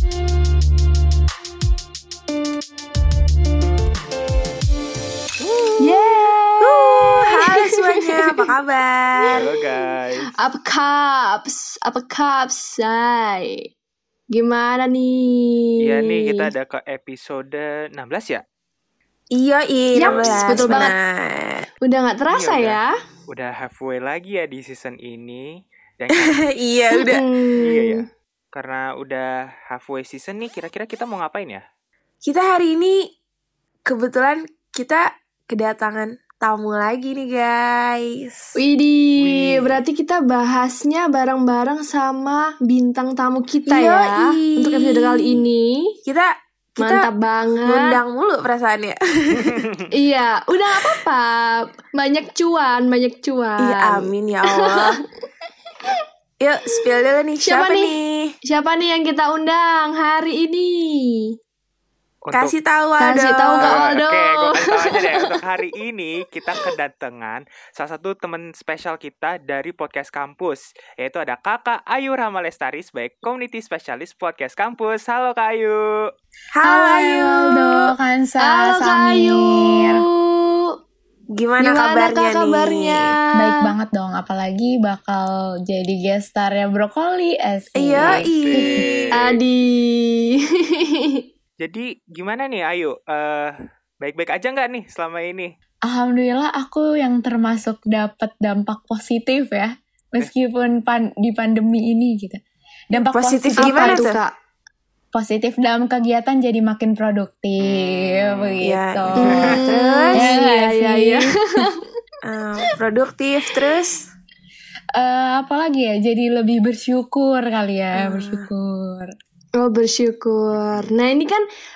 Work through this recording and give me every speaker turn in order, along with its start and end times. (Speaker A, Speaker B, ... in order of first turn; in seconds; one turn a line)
Speaker A: 5.4-9.4
Speaker B: 5.8-8.4
Speaker B: 9.2-9.5
Speaker C: 9.3-10.3
Speaker B: 10.4-13.6
Speaker B: 14.3-16.5
Speaker C: 15.8-18.4
Speaker A: 19.3-21.6
Speaker B: 19.9-20.9
Speaker C: 20.0-20.9
Speaker B: 21.8-22.9
Speaker C: 22.3-26.4
Speaker A: 26.2-27.2
Speaker B: 27.0-28.0
Speaker C: 27.6-31.6
Speaker A: 32.2-33.1
Speaker A: 33.9-38.5
Speaker B: 38.5-45.9
Speaker C: 39.2-39.8
Speaker A: 43.7-45.4
Speaker A: 46.0-47.0
Speaker B: 46.8-48.0
Speaker A: 47.6-49.7
Speaker B: 49.9-55.0
Speaker A: 53.6-55.0
Speaker A: 56.4-58.3
Speaker B: 57.4-57.9
Speaker B: 58.5-61.2
Speaker C: 62.2-62.5
Speaker A: 62.3-63.8
Speaker B: 63.0-65.3
Speaker C: 63.6-76.0
Speaker A: 76.5-77.9
Speaker D: 76.6-80.0
Speaker B: 78.4-80.7
Speaker A: 81.3-83.2
Speaker B: 81.6-83.7
Speaker D: 83.3-88.9
Speaker A: 87.8-88.9
Speaker C: 88.0-89.4
Speaker B: 89.1-91.2
Speaker C: 91.6-95.5
Speaker D: 95.9-102.4
Speaker D: 102.9-104.1
Speaker A: 103.1-104.2
Speaker B: 103.6-104.3
Speaker D: 105.1-109.6
Speaker C: 107.6-108.5
Speaker A: 108.6-110.2
Speaker C: 109.2-109.5
Speaker B: 109.2-111.8
Speaker D: 110.1-111.7
Speaker A: 112.2-114.0
Speaker D: 115.0-119.1
Speaker A: 118.0-118.5
Speaker B: 119.6-121.4
Speaker C: 120.6-120.9